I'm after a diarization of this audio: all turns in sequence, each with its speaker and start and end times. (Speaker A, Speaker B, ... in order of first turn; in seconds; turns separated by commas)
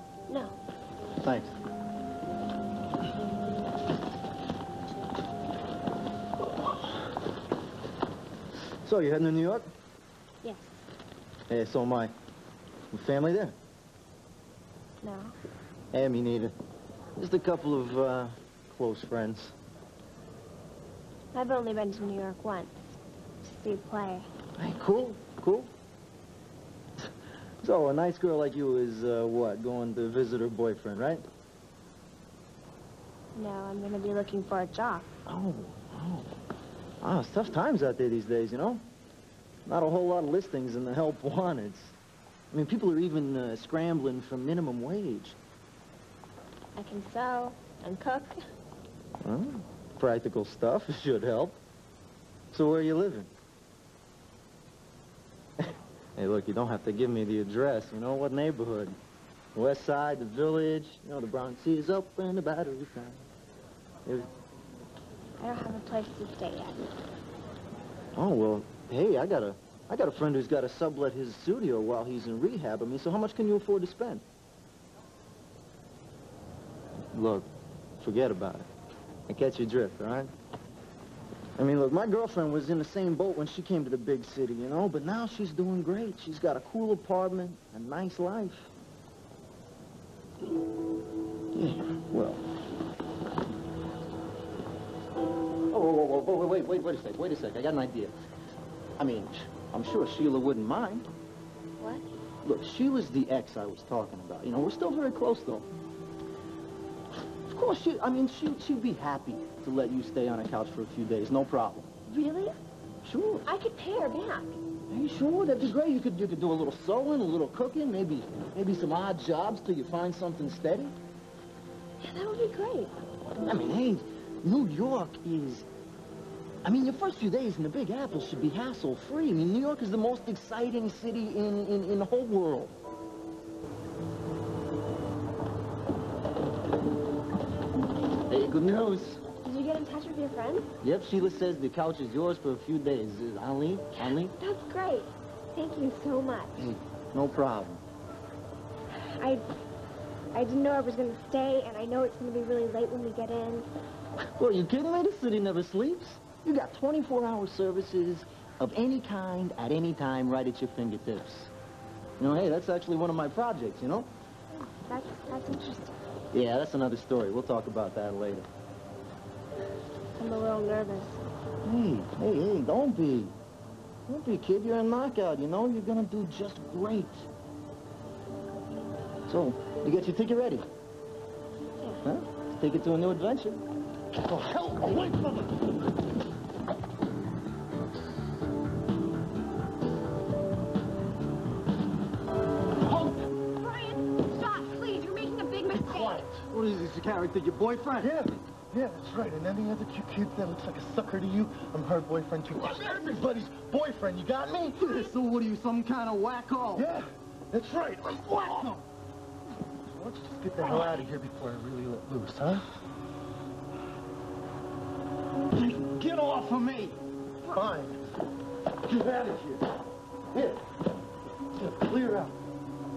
Speaker A: 0.3-0.6, Speaker B: 1.2-1.5, Speaker B: 8.8-9.7, Speaker A: 10.4-10.8, Speaker B: 11.5-12.1, Speaker B: 12.9-13.6, Speaker A: 15.0-15.3, Speaker B: 15.9-16.6, Speaker B: 17.2-19.6, Speaker A: 21.3-22.8, Speaker A: 23.4-24.3, Speaker B: 24.6-25.7, Speaker B: 27.6-31.2, Speaker A: 33.3-35.1, Speaker B: 35.3-36.3, Speaker B: 37.0-38.8, Speaker B: 39.7-42.0, Speaker B: 42.5-45.4, Speaker A: 46.8-48.4, Speaker B: 49.2-51.6, Speaker B: 52.5-53.3, Speaker B: 56.1-59.0, Speaker B: 59.5-63.3, Speaker A: 65.4-66.9, Speaker B: 68.2-74.2, Speaker B: 77.1-77.5, Speaker B: 78.0-78.7, Speaker B: 79.3-80.3, Speaker B: 81.6-88.7, Speaker B: 91.5-92.4, Speaker B: 95.7-98.1, Speaker B: 99.0-101.1, Speaker A: 101.8-102.0, Speaker B: 102.4-105.7, Speaker B: 107.5-111.9, Speaker A: 112.1-112.6, Speaker B: 113.0-113.5, Speaker A: 113.5-114.5, Speaker B: 114.9-120.9, Speaker A: 122.0-122.9, Speaker B: 123.4-125.7, Speaker B: 126.6-132.8, Speaker B: 138.3-139.2, Speaker A: 139.4-140.7, Speaker B: 140.8-144.3, Speaker A: 144.3-146.6, Speaker B: 146.6-147.8, Speaker A: 149.2-149.4, Speaker A: 150.3-153.7, Speaker B: 154.4-161.5, Speaker B: 162.2-164.1, Speaker A: 164.5-165.9, Speaker B: 166.3-168.5, Speaker A: 170.2-171.2, Speaker B: 171.6-173.3, Speaker B: 174.1-177.3, Speaker B: 179.3-180.7, Speaker A: 181.8-182.0, Speaker B: 182.0-183.6, Speaker C: 184.3-185.5, Speaker A: 193.1-196.2, Speaker C: 195.8-196.5, Speaker B: 196.1-198.8, Speaker C: 198.0-205.0, Speaker B: 202.6-203.2, Speaker B: 204.4-207.0, Speaker C: 206.7-208.6, Speaker B: 208.4-208.8, Speaker B: 209.9-212.7, Speaker C: 210.5-212.3, Speaker B: 215.6-217.0, Speaker C: 217.5-218.0, Speaker B: 218.9-219.6, Speaker B: 220.3-220.6, Speaker B: 221.6-222.3